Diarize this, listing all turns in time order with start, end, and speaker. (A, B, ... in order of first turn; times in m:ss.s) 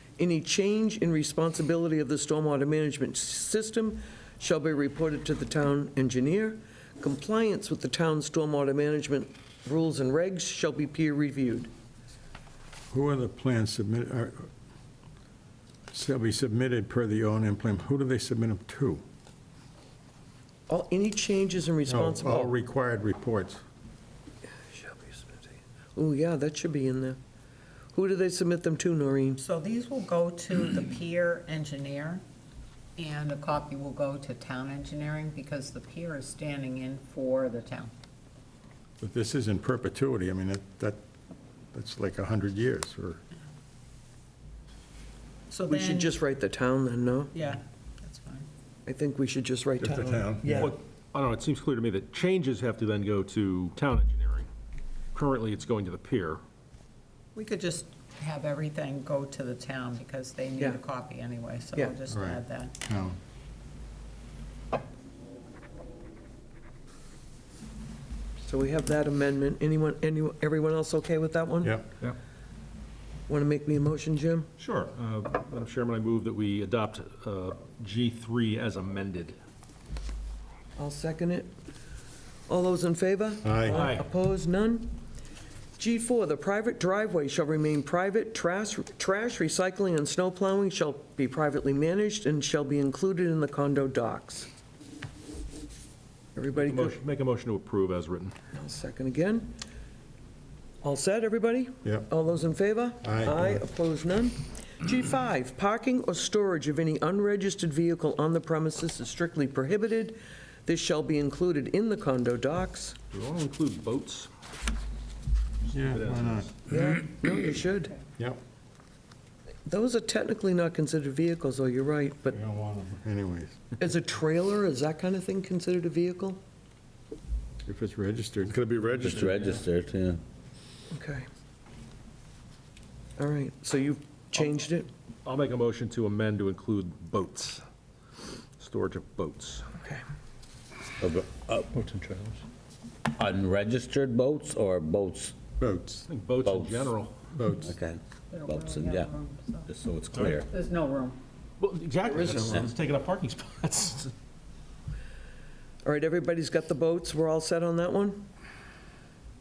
0:00.2-0:11.7 A
0:12.9-0:14.5 B
0:15.9-0:19.0 B
0:20.7-0:22.5 A
0:21.9-0:23.6 B
0:24.7-0:27.2 A
0:27.9-0:29.4 A
0:29.4-0:32.2 C
0:33.0-0:37.9 C
0:39.0-0:41.0 B
0:41.7-0:43.2 B
0:45.5-0:46.1 C
0:45.7-0:47.3 A
0:47.3-0:48.5 C
0:48.9-0:50.8 A
0:49.8-0:50.8 B
0:50.5-0:54.5 D
0:55.1-0:56.4 D
0:57.4-1:02.7 C
1:02.1-1:03.2 B
1:08.5-1:11.8 A
1:11.6-1:11.9 B
1:13.3-1:14.5 A
1:14.6-1:19.4 D
1:20.8-1:21.5 A
1:22.5-1:25.0 A
1:23.4-1:23.8 B
1:23.7-1:24.0 D
1:25.8-1:34.5 A
1:36.4-1:37.0 A
1:36.6-1:38.4 D
1:38.5-1:39.5 A
1:40.8-1:53.0 A
1:43.0-1:43.6 B
1:53.1-1:54.3 D
1:55.7-1:56.5 D
1:55.7-1:56.5 B
1:56.7-1:58.0 A
1:59.7-2:02.4 A
2:02.3-2:03.7 B
2:03.8-2:06.4 A
2:07.7-2:09.5 B
2:09.0-2:10.2 E
2:10.9-2:11.3 A
2:13.2-2:14.9 A
2:15.2-2:17.6 D
2:18.6-2:19.7 D
2:21.0-2:22.3 E
2:23.1-2:25.4 E
2:25.6-2:26.1 B
2:26.1-2:27.1 D
2:26.4-2:26.9 E
2:27.3-2:27.7 B
2:27.6-2:29.1 E
2:28.3-2:29.7 C
2:29.7-2:30.5 E
2:30.1-2:30.4 D
2:30.4-2:31.2 C
2:31.6-2:34.1 D
2:32.1-2:32.6 A
2:35.8-2:38.3 A